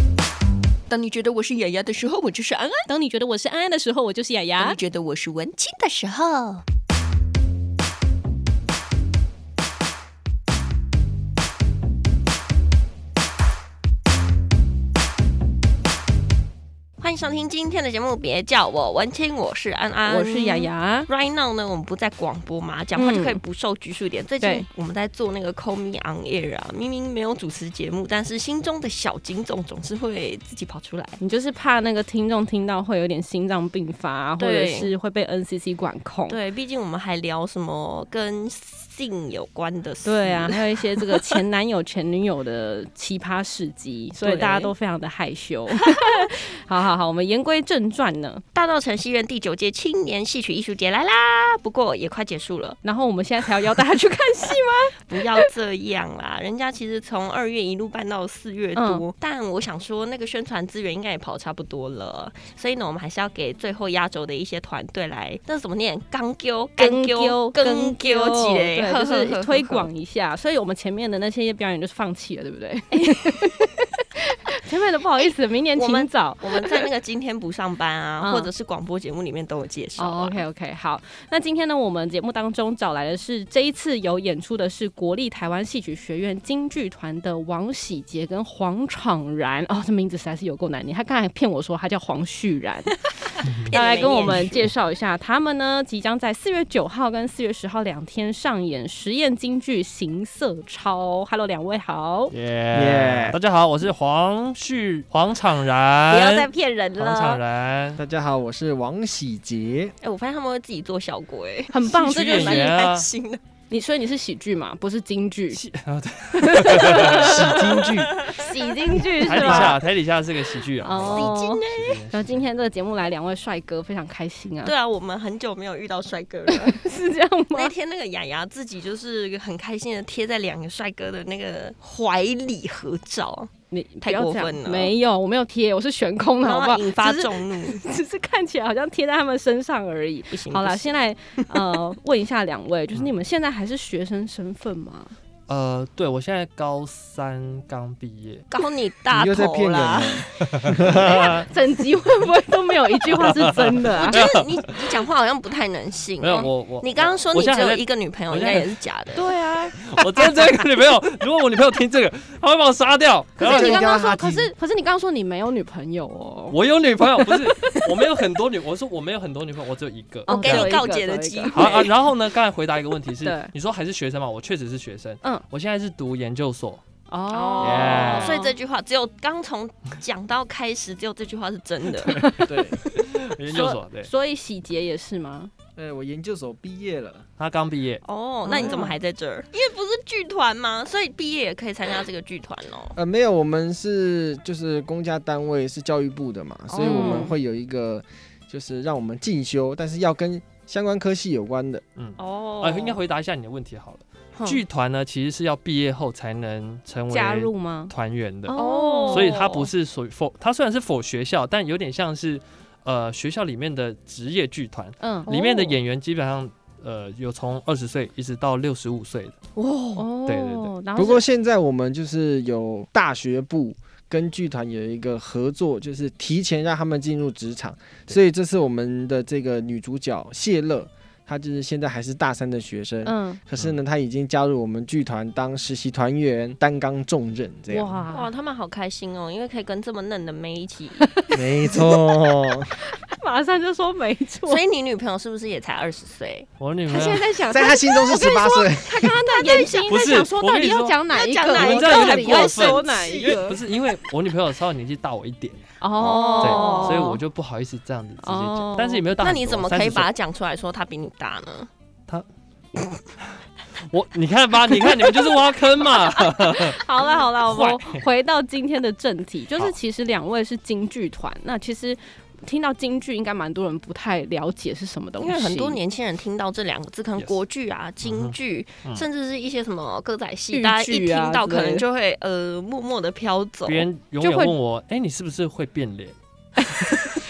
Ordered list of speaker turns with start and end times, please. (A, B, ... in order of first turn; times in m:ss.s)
0:00.9-0:02.9 A
0:02.9-0:04.8 B
0:04.6-0:06.6 A
0:17.0-0:31.2 A
0:20.1-0:21.1 B
0:23.0-0:23.4 B
0:31.2-0:36.4 B
0:34.4-0:34.9 A
0:36.3-0:41.4 A
0:40.0-0:48.4 B
0:44.2-0:44.7 A
0:48.5-0:52.8 A
0:52.8-0:55.5 B
0:55.1-1:09.9 A
0:58.8-0:59.1 B
1:06.8-1:16.8 B
1:15.8-1:20.4 A
1:18.2-1:18.5 B
1:20.0-1:33.0 B
1:33.4-1:34.6 C
1:33.5-1:34.7 A
1:33.7-1:42.3 B
1:42.3-1:48.0 C
1:42.7-1:43.4 D
1:46.1-1:47.4 A
1:48.0-1:50.0 D
1:50.0-1:53.4 A
1:51.7-1:52.8 B
1:51.9-1:53.1 C
1:53.7-1:55.6 B
1:55.5-1:58.3 C
1:56.3-1:59.8 B
1:58.0-1:58.6 A
1:59.2-2:02.4 C
1:59.4-1:59.7 D
2:00.8-2:04.7 B
2:01.1-2:02.0 A
2:04.6-2:06.8 A
2:06.5-2:07.7 B
2:07.5-2:13.5 A
2:13.7-2:25.2 B
2:14.0-2:14.9 A
2:16.4-2:17.8 A
2:20.3-2:21.0 A
2:21.5-2:21.8 A
2:25.5-2:28.5 C
2:28.5-2:30.5 A
2:29.1-2:31.4 D
2:30.5-2:31.4 C
2:31.1-2:31.4 A
2:31.5-2:34.2 B
2:33.1-2:35.0 C
2:34.0-2:39.3 A
2:36.2-2:38.8 C
2:39.2-2:40.3 B
2:39.7-2:43.8 C
2:43.4-2:46.6 B
2:43.4-2:44.5 D
2:46.5-2:50.8 C
2:47.2-2:48.0 B
2:50.3-2:51.9 B
2:50.3-2:51.9 A
2:51.5-2:56.8 C
2:53.2-2:53.5 B
2:57.1-2:58.6 B
2:57.3-3:02.3 A
2:57.6-2:58.4 C
3:02.0-3:05.5 B
3:02.4-3:02.8 D
3:03.0-3:04.1 C
3:05.8-3:07.3 D
3:07.4-3:08.0 C
3:08.0-3:13.0 A
3:08.5-3:09.0 B
3:08.5-3:08.8 D
3:13.0-3:21.8 D
3:16.7-3:17.3 A
3:16.8-3:17.3 B
3:22.0-3:39.4 C
3:22.2-3:23.0 A
3:27.1-3:27.9 B
3:28.4-3:29.4 B
3:28.5-3:29.7 A
3:35.0-3:35.3 B
3:35.3-3:35.8 A
3:39.6-3:40.1 A
3:40.0-3:41.2 B
3:40.3-3:40.7 C
3:41.0-3:58.0 D
3:53.0-3:53.4 B
3:57.7-3:58.3 B
3:58.1-4:01.1 A
4:01.0-4:01.9 B
4:01.3-4:02.7 D
4:02.9-4:04.6 B
4:04.5-4:06.5 A
4:06.6-4:07.3 C
4:06.9-4:13.6 B
4:07.5-4:09.2 D
4:09.2-4:09.8 A
4:09.9-4:15.6 C
4:11.1-4:13.6 A
4:15.8-4:17.2 B
4:16.0-4:17.2 A
4:16.4-4:20.1 C
4:18.2-4:19.1 B
4:19.2-4:21.7 A
4:23.8-4:26.8 C
4:26.2-4:35.8 B
4:27.4-4:28.0 C
4:35.2-4:43.9 A
4:38.0-4:39.0 C
4:40.5-4:41.8 B
4:43.7-4:46.2 C
4:44.2-4:44.6 B